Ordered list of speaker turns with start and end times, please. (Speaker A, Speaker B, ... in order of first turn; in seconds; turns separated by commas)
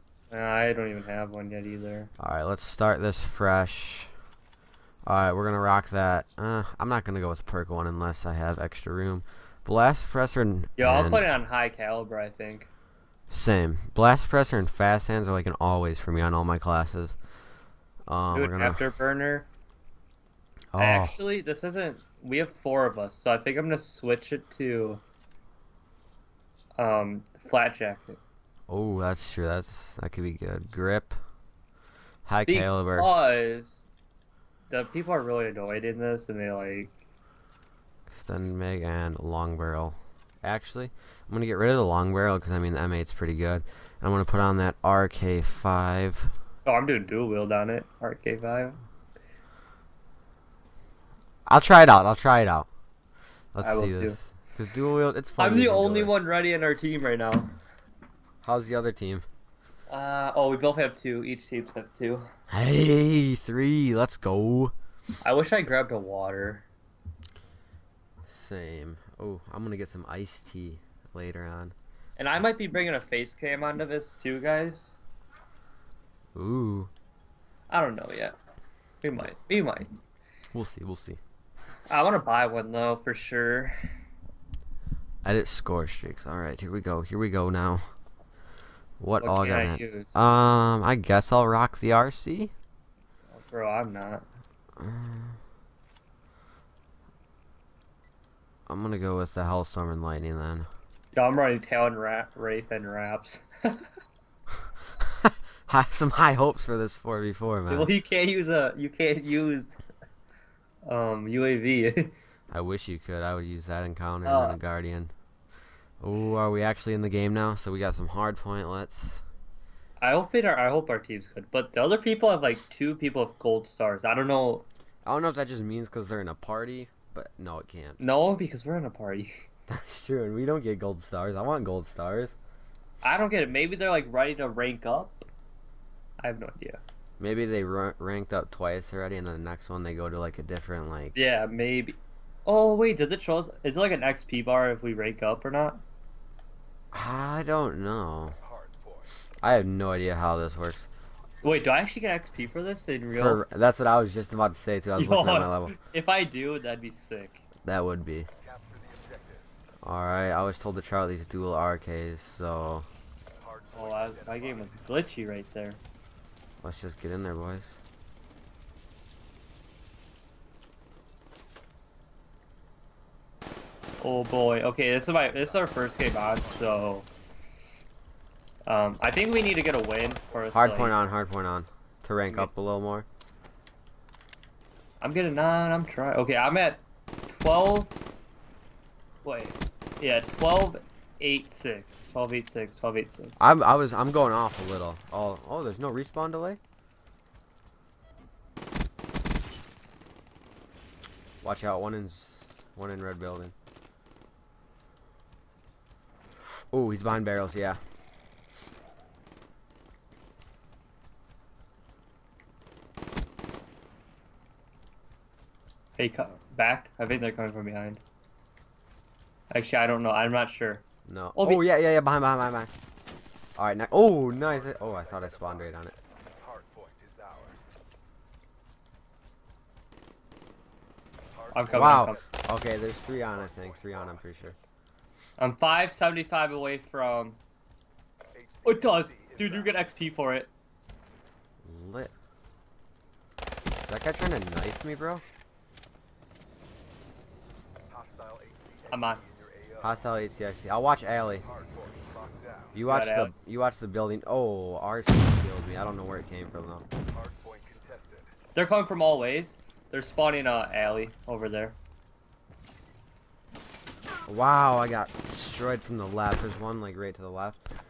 Speaker A: 0.3-2.1, Speaker B: 2.2-4.1, Speaker B: 5.0-11.3, Speaker A: 10.8-12.7, Speaker B: 13.3-17.1, Speaker B: 18.1-18.8, Speaker A: 18.3-19.5, Speaker B: 20.7-21.2, Speaker A: 20.8-25.0, Speaker A: 26.8-28.2, Speaker B: 28.7-31.2, Speaker B: 32.2-33.1, Speaker A: 32.5-33.8, Speaker A: 34.7-37.0, Speaker B: 38.1-46.3, Speaker A: 46.6-48.8, Speaker B: 51.5-52.7, Speaker B: 53.5-56.2, Speaker A: 53.6-54.2, Speaker A: 55.4-57.5, Speaker B: 58.4-59.2, Speaker A: 59.9-62.3, Speaker B: 62.5-64.7, Speaker A: 65.2-66.7, Speaker B: 68.3-71.7, Speaker A: 72.2-75.0, Speaker B: 76.3-76.9, Speaker A: 77.7-78.3, Speaker A: 79.0-79.9, Speaker B: 80.5-81.2, Speaker A: 81.9-83.8, Speaker B: 85.2-87.8, Speaker B: 89.0-92.5, Speaker A: 89.2-90.1, Speaker A: 93.3-94.2, Speaker B: 94.8-95.4, Speaker B: 98.7-100.7, Speaker A: 101.1-103.9, Speaker B: 105.0-107.9, Speaker A: 107.7-109.8, Speaker A: 110.8-112.1, Speaker B: 112.5-115.1, Speaker A: 114.2-114.6, Speaker B: 116.0-119.2, Speaker A: 120.0-124.7, Speaker B: 125.0-128.0, Speaker A: 128.0-129.3, Speaker B: 129.7-132.3, Speaker A: 133.0-135.2, Speaker A: 136.2-136.8, Speaker B: 137.2-141.2, Speaker A: 141.1-145.8, Speaker B: 146.9-148.4, Speaker C: 148.4-149.1, Speaker B: 149.4-150.9, Speaker A: 151.4-153.4, Speaker B: 153.1-155.7, Speaker A: 155.0-157.4, Speaker B: 157.6-158.3, Speaker C: 158.4-159.6, Speaker B: 159.8-162.8, Speaker C: 163.4-165.0, Speaker A: 163.7-165.8, Speaker B: 166.6-167.8, Speaker A: 174.0-177.1, Speaker C: 175.1-177.0, Speaker A: 178.7-180.9, Speaker C: 179.8-181.2, Speaker B: 180.5-183.1, Speaker A: 185.0-187.9, Speaker A: 189.2-193.5, Speaker B: 193.4-196.6, Speaker B: 201.4-203.5, Speaker B: 206.7-207.8, Speaker A: 215.9-218.0, Speaker A: 219.5-220.8, Speaker B: 221.1-222.7, Speaker A: 221.3-221.7, Speaker B: 223.6-225.9, Speaker C: 224.4-225.8, Speaker C: 226.4-227.7, Speaker C: 231.3-232.5, Speaker A: 231.5-232.2, Speaker B: 231.7-234.6, Speaker C: 233.0-234.4, Speaker A: 235.4-237.4, Speaker C: 238.3-239.8, Speaker A: 238.6-240.5, Speaker B: 241.6-242.1, Speaker B: 243.8-245.2, Speaker C: 247.9-250.1, Speaker A: 248.9-249.2, Speaker B: 249.8-251.4, Speaker C: 251.4-252.8, Speaker B: 252.7-256.8, Speaker A: 252.8-253.3, Speaker C: 257.0-258.3, Speaker A: 258.5-261.8, Speaker B: 264.3-267.6